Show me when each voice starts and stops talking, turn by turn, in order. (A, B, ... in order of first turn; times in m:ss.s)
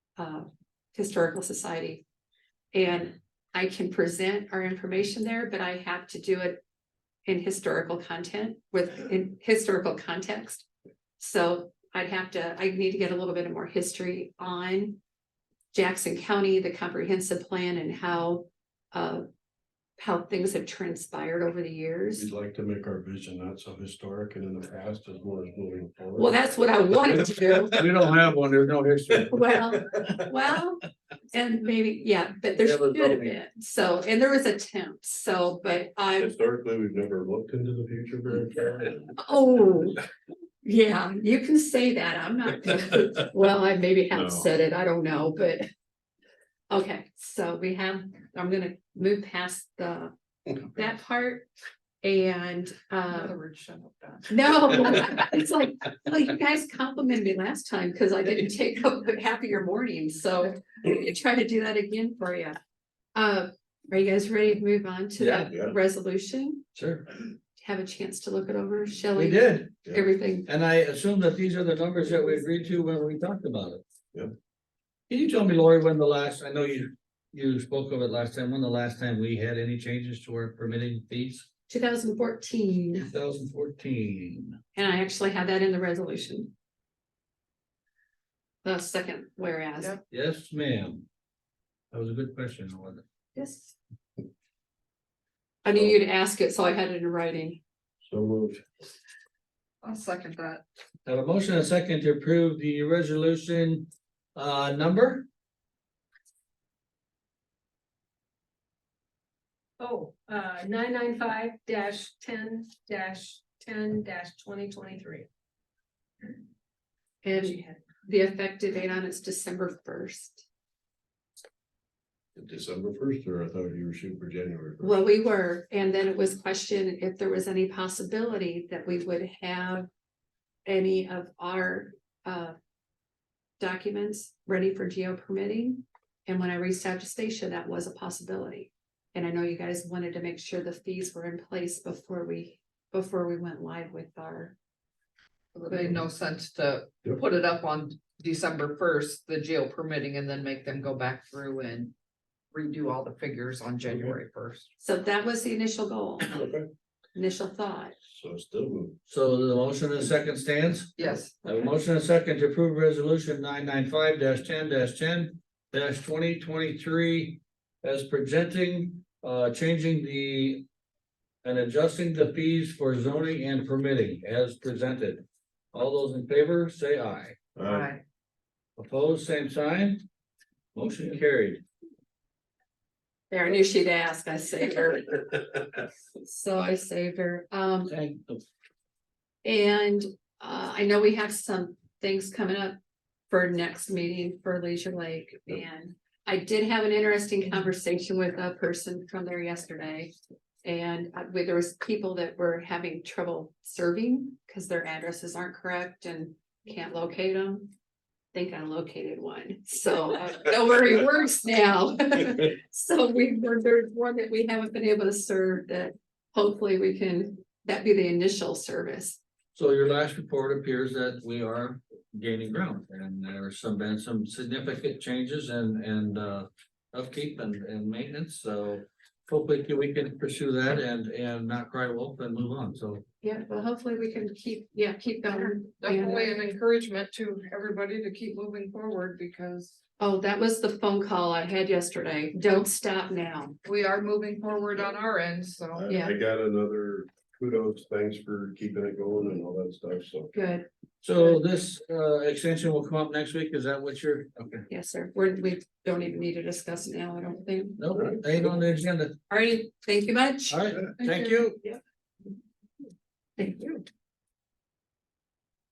0:00.2-0:02.0 A
0:02.7-0:06.6 A
0:07.3-0:10.7 A
0:11.2-0:15.0 A
0:15.7-0:19.2 A
0:20.0-0:22.3 A
0:22.1-0:26.4 B
0:26.2-0:27.8 A
0:27.7-0:29.8 C
0:29.3-0:36.4 A
0:32.6-0:33.4 C
0:36.2-0:39.1 B
0:38.3-0:38.8 C
0:39.2-0:40.0 A
0:40.6-0:45.7 A
0:44.1-0:44.5 B
0:46.7-0:51.5 A
0:52.0-0:53.4 A
0:53.1-0:54.7 D
0:54.3-1:02.6 A
1:03.2-1:06.6 A
1:05.2-1:05.5 C
1:06.8-1:07.1 C
1:07.6-1:10.5 A
1:09.2-1:09.7 C
1:10.5-1:13.8 C
1:15.1-1:21.5 C
1:21.7-1:23.1 A
1:23.0-1:24.6 C
1:24.8-1:26.5 A
1:28.6-1:30.0 A
1:30.1-1:31.1 C
1:31.9-1:33.0 C
1:33.4-1:33.7 A
1:35.6-1:37.6 A
1:38.0-1:38.6 B
1:39.8-1:40.6 D
1:41.1-1:45.3 C
1:49.8-1:55.3 E
1:57.2-2:00.5 A
1:57.3-1:57.8 E
2:02.4-2:05.0 B
2:04.8-2:09.9 A
2:10.6-2:12.6 A
2:13.6-2:24.6 A
2:25.6-2:31.9 D
2:32.5-2:34.7 D
2:33.9-2:34.1 B
2:34.8-2:36.4 A
2:36.3-2:36.7 B
2:37.2-2:37.9 A
2:38.1-2:39.0 B
2:39.1-2:40.9 C
2:41.0-2:41.7 D
2:41.4-2:50.7 C
2:51.4-2:57.4 C
2:57.6-2:57.9 B
2:57.6-2:58.0 D
2:58.8-3:00.0 C
3:00.8-3:01.6 C
3:03.3-3:05.3 A
3:06.2-3:07.9 A
3:07.9-3:08.4 C
3:09.4-3:12.8 A
3:13.3-3:20.1 A
3:20.6-3:27.7 A
3:28.3-3:39.2 A
3:39.6-3:53.0 C
3:53.2-3:56.4 A
3:55.8-3:59.8 D
4:00.0-4:03.6 A
4:03.6-4:05.9 D
4:05.7-4:10.3 B
4:05.9-4:06.1 A
4:10.3-4:10.7 A
4:11.0-4:14.6 C
4:14.7-4:17.8 A
4:17.8-4:19.2 C
4:17.9-4:18.5 B
4:19.3-4:21.8 A
4:20.5-4:21.6 C
4:23.4-4:23.8 A